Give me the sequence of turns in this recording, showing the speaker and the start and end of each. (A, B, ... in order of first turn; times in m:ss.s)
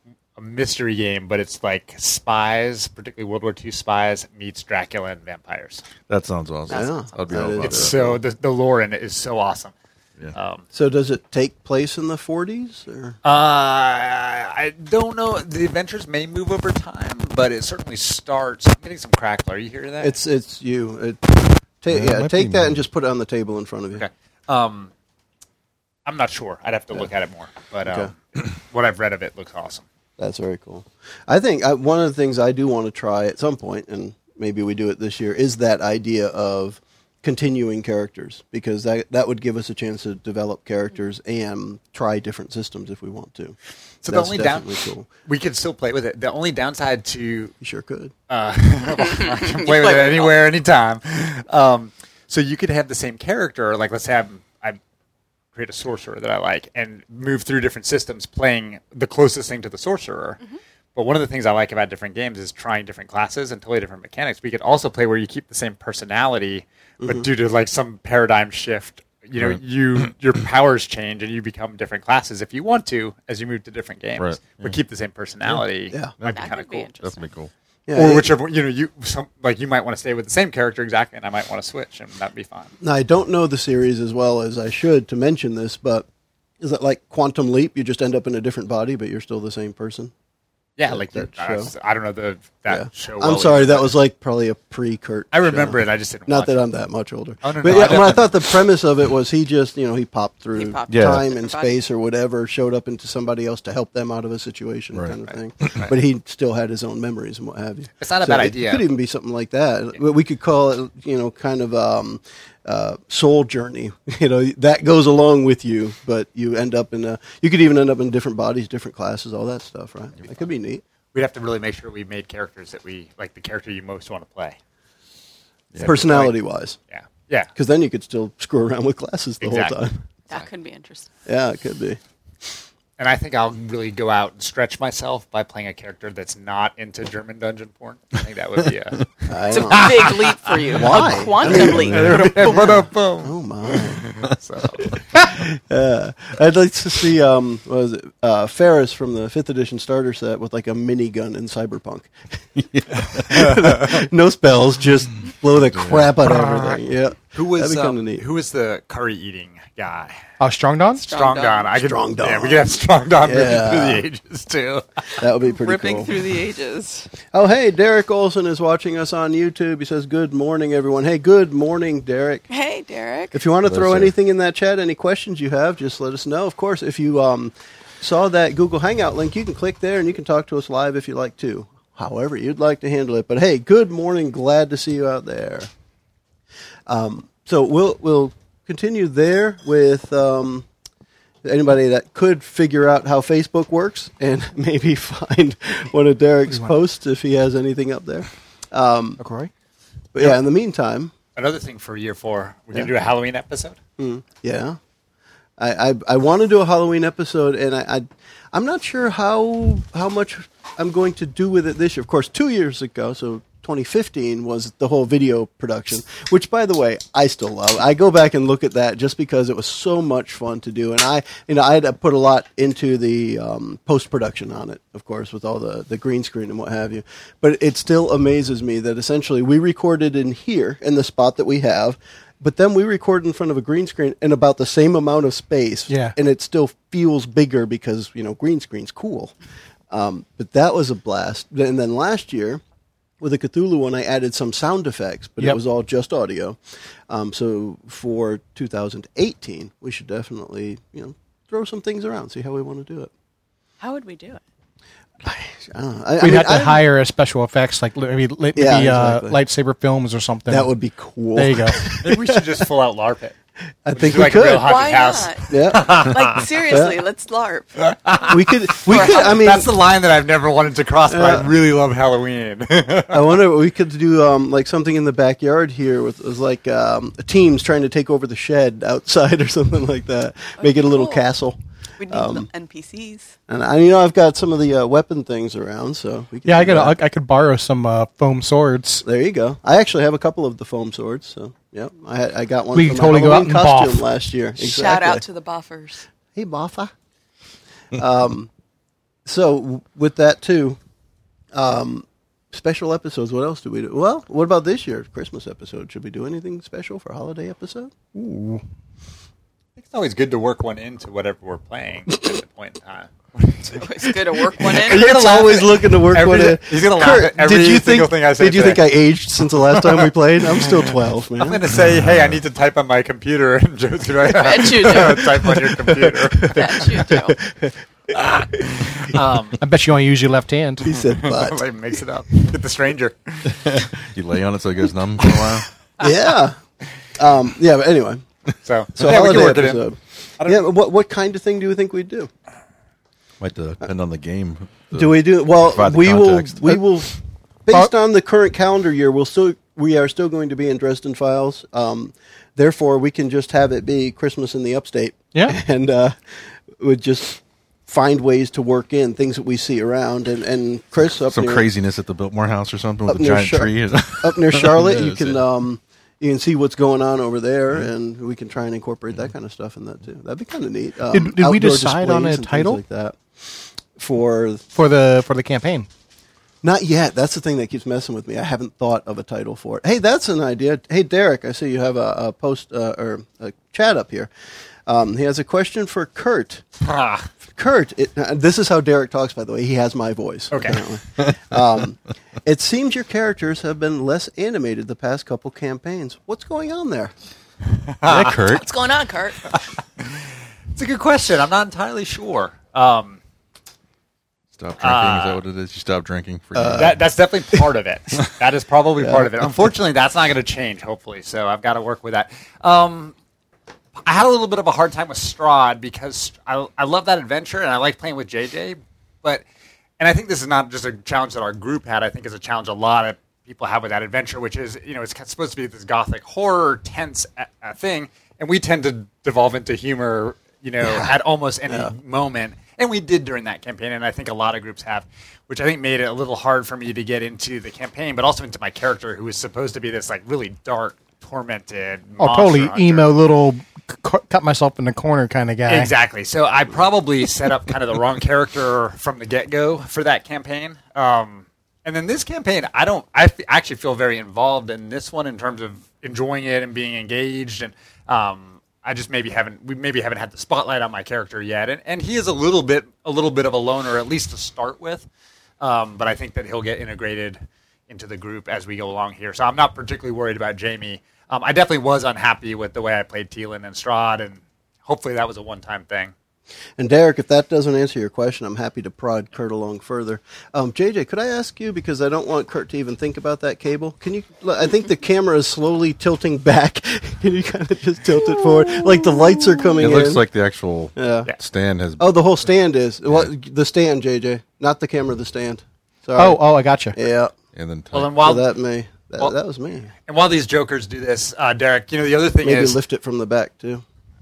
0:00.4-0:05.8 A
0:06.1-0:08.1 B
0:06.7-0:08.2 C
0:07.6-0:09.7 A
0:10.3-0:10.6 A
0:10.7-0:13.2 C
0:13.2-0:20.2 A
0:20.0-0:24.0 C
0:21.9-0:22.8 B
0:23.9-0:24.9 A
0:26.0-0:29.8 A
0:27.8-0:28.1 C
0:30.2-0:45.1 C
0:44.0-0:47.5 A
0:47.6-0:48.1 C
0:48.3-0:54.8 A
0:49.0-0:50.3 D
0:55.5-1:00.4 A
1:00.9-1:16.9 A
1:07.0-1:07.3 C
1:14.2-1:14.8 B
1:16.2-1:17.5 B
1:16.3-1:17.3 D
1:17.9-1:18.3 C
1:17.9-1:22.7 A
1:22.8-1:26.0 C
1:26.6-1:30.1 C
1:30.8-1:33.9 A
1:30.9-1:31.7 C
1:32.7-2:00.8 C
1:35.3-1:36.6 A
1:37.4-1:38.4 A
1:40.5-1:41.7 D
1:40.9-1:41.2 B
1:44.9-1:45.8 B
1:48.0-1:48.8 A
2:01.1-2:04.6 A
2:05.7-2:06.0 B
2:05.7-2:06.3 A
2:05.8-2:06.8 C
2:06.9-2:07.5 A
2:07.5-2:10.0 C
2:09.4-2:09.8 A
2:10.3-2:11.1 D
2:11.2-2:12.0 C
2:13.0-2:25.0 A
2:19.3-2:20.1 C
2:19.5-2:22.5 D
2:20.7-2:24.0 C
2:21.6-2:22.2 B
2:25.1-2:38.2 C
2:32.7-2:33.1 B
2:35.7-2:36.1 B
2:36.3-2:36.8 A
2:37.3-2:40.2 A
2:40.4-2:41.0 E
2:41.0-2:41.7 D
2:41.0-2:45.1 A
2:41.7-2:44.0 C
2:45.2-2:46.1 C
2:45.5-2:47.1 D
2:47.3-2:52.4 C
2:52.5-2:53.4 D
2:53.3-3:05.7 C
2:53.6-2:54.1 B
3:06.9-3:10.6 C
3:11.4-3:19.2 C
3:19.2-3:19.5 E
3:20.1-3:21.1 C
3:21.4-3:23.8 A
3:24.0-3:24.8 C
3:25.6-3:59.3 C
3:55.9-3:56.2 E
3:59.9-4:02.6 C
4:03.2-4:06.6 C
4:07.1-4:13.1 C
4:13.8-4:14.4 D
4:15.2-4:16.8 C
4:16.2-4:20.7 E
4:18.5-4:19.4 C
4:20.5-4:22.4 C
4:21.3-4:21.8 E
4:21.9-4:23.3 A
4:23.8-4:24.7 C
4:23.9-4:26.8 A
4:24.6-4:28.3 D
4:25.5-4:26.0 C
4:26.7-4:27.0 C
4:27.8-4:33.3 A
4:28.3-4:29.7 C
4:28.9-4:29.5 D
4:31.1-4:31.5 C
4:33.1-4:41.6 C
4:40.6-4:41.2 D
4:42.0-4:43.3 D
4:42.1-4:42.5 C
4:43.5-4:46.9 C
4:46.4-4:49.0 E
4:49.0-4:55.2 C
4:52.7-4:54.0 E
4:54.6-4:56.0 D
4:56.3-4:56.9 C
4:57.9-4:58.5 C
4:59.2-5:00.8 C
5:01.5-5:07.9 C
5:08.1-5:08.6 E
5:09.8-5:13.9 A
5:13.6-5:15.3 D
5:14.5-5:19.0 A
5:14.5-5:21.6 C
5:19.7-5:27.0 A
5:21.8-5:22.4 B
5:24.4-5:25.3 D
5:25.0-5:28.1 C
5:26.4-5:27.4 D
5:28.1-5:29.6 A
5:29.6-5:30.9 E
5:30.8-5:31.6 C
5:30.9-5:33.7 A
5:33.6-5:35.7 B
5:35.2-5:36.0 A
5:36.0-5:36.6 C
5:37.2-5:38.2 C
5:38.6-5:39.9 A
5:39.0-5:42.3 C
5:40.4-5:40.6 A
5:43.4-5:46.8 B
5:44.9-5:47.1 C
5:47.6-5:56.1 C
5:55.3-5:55.6 E
5:56.8-6:01.7 C
6:01.3-6:05.4 B
6:03.1-6:14.6 C
6:11.1-6:12.8 E
6:14.7-6:15.9 E
6:16.6-6:24.3 C
6:24.8-6:26.6 C
6:26.8-6:27.3 A
6:27.5-6:37.1 C
6:30.5-6:30.8 A
6:37.8-6:38.4 A
6:38.0-6:38.6 B
6:38.4-6:39.4 D
6:39.5-6:43.2 A
6:44.5-6:47.0 B
6:44.8-6:45.4 A
6:46.5-6:47.0 C
6:46.8-6:53.1 A
6:49.0-6:49.3 C
6:54.0-6:59.4 A
7:00.0-7:23.1 A
7:11.7-7:11.9 C
7:22.2-7:25.9 E
7:25.7-7:45.1 A
7:45.6-7:56.1 A
7:56.8-8:10.2 C
8:09.8-8:12.0 B
8:11.0-8:11.3 C
8:12.0-8:16.4 C
8:16.2-8:17.0 E
8:16.9-8:17.3 C
8:17.5-8:18.2 B
8:17.9-8:18.5 A
8:18.2-8:19.9 C
8:20.1-8:22.8 A
8:22.4-8:23.8 C